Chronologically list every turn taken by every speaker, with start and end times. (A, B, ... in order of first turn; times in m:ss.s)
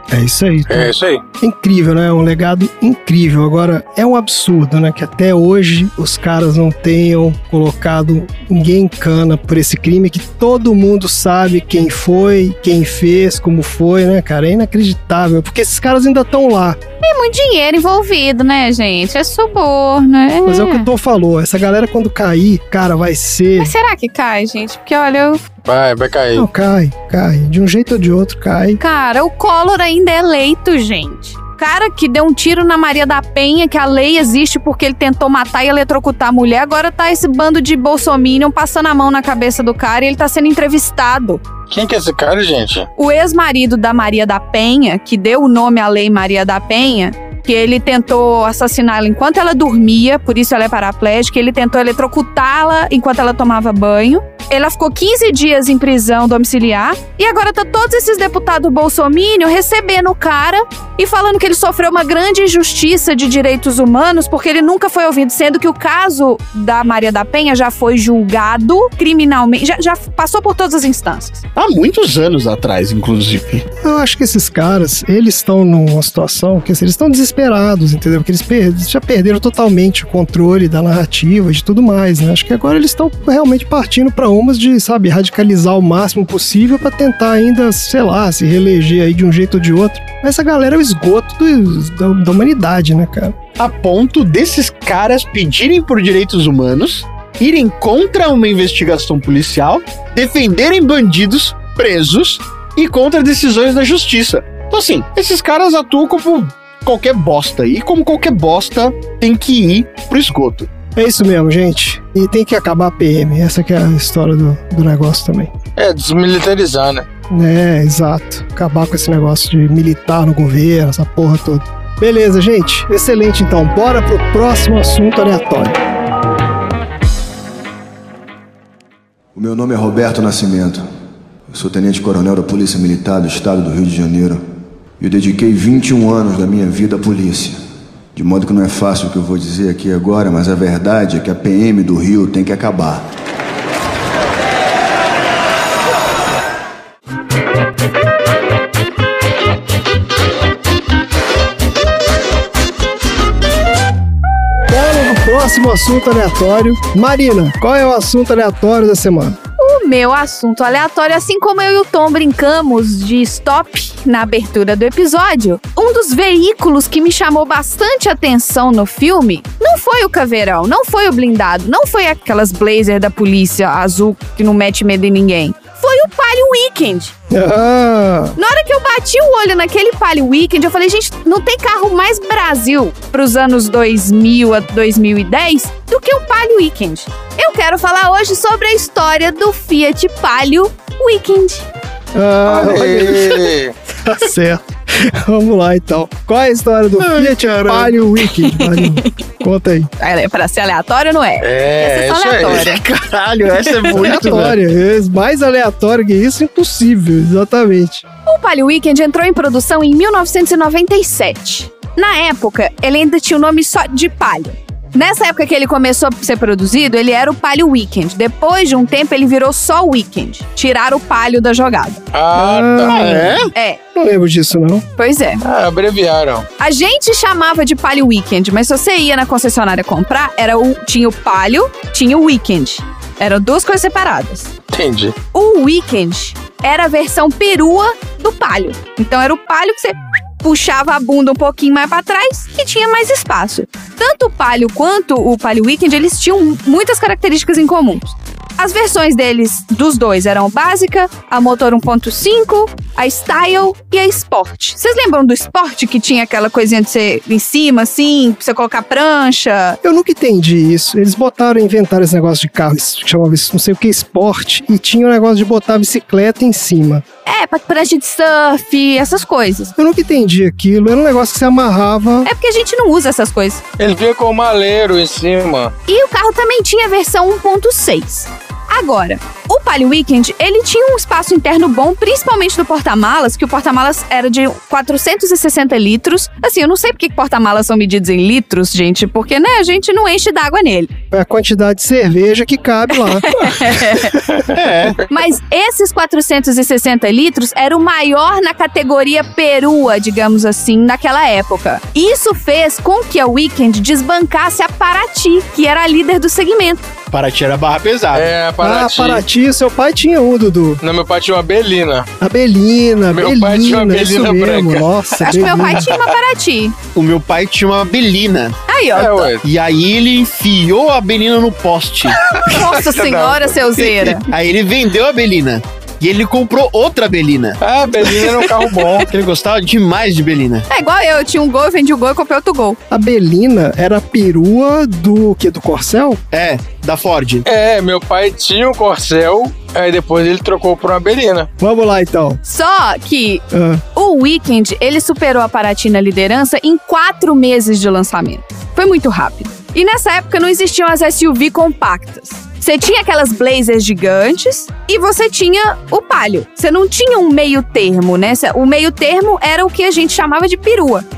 0:00.1-0:16.8 A
0:00.7-0:01.2 B
0:17.0-0:20.9 C
0:20.4-0:23.7 A
0:23.6-0:25.4 C
0:25.6-0:26.5 B
0:26.3-0:28.8 A
0:28.8-0:41.4 C
0:41.7-0:42.9 B
0:43.0-1:11.4 C
1:11.6-1:13.6 D
1:13.8-1:33.4 A
1:33.6-1:50.7 D
1:50.9-1:55.5 A
1:55.8-1:57.0 B
1:57.3-2:05.8 A
2:09.3-2:10.8 E
2:11.5-2:14.4 E
2:15.0-2:17.6 E
2:18.1-2:23.1 E
2:34.7-2:39.4 A
2:39.6-2:57.1 C
2:57.3-2:58.4 A
2:58.4-3:11.7 C
3:12.1-3:13.5 A
3:12.4-3:13.7 B
3:14.0-3:19.9 A
3:17.0-3:18.6 D
3:20.0-3:22.8 C
3:21.4-3:22.7 B
3:22.5-3:24.6 D
3:23.9-3:28.0 A
3:28.2-3:42.0 C
3:42.1-3:43.0 B
3:42.3-3:43.4 A
3:42.9-3:43.5 D
3:43.5-3:43.8 C
3:43.9-3:44.8 A
3:45.0-3:45.4 C
3:45.4-3:46.4 B
3:46.6-3:54.5 C
3:54.7-3:55.1 B
3:55.3-4:19.8 C
4:19.8-4:27.0 A
4:27.2-4:29.7 C
4:29.8-4:32.3 A
4:32.2-4:33.6 C
4:33.8-4:35.7 B
4:35.9-4:50.9 C
4:51.1-4:54.4 A
4:53.3-4:54.2 C
4:54.5-4:55.0 D
4:55.0-5:06.9 C
5:07.1-5:08.3 D
5:08.1-5:09.2 B
5:08.6-5:10.8 A
5:10.8-5:12.1 B
5:12.2-5:15.9 A
5:13.1-5:14.9 B
5:15.2-5:16.7 C
5:15.7-5:16.0 B
5:16.9-5:18.6 D
5:18.7-5:19.3 C
5:19.0-5:19.4 B
5:19.4-5:22.2 D
5:22.2-5:23.8 B
5:22.4-5:24.2 C
5:24.3-5:27.6 D
5:27.6-5:29.1 B
5:29.1-5:30.7 D
5:30.7-5:32.8 C
5:32.9-5:36.2 A
5:36.3-5:37.4 D
5:37.4-5:41.5 B
5:41.6-5:42.4 A
5:42.4-5:43.4 C
5:43.5-5:43.8 A
5:43.9-6:01.0 C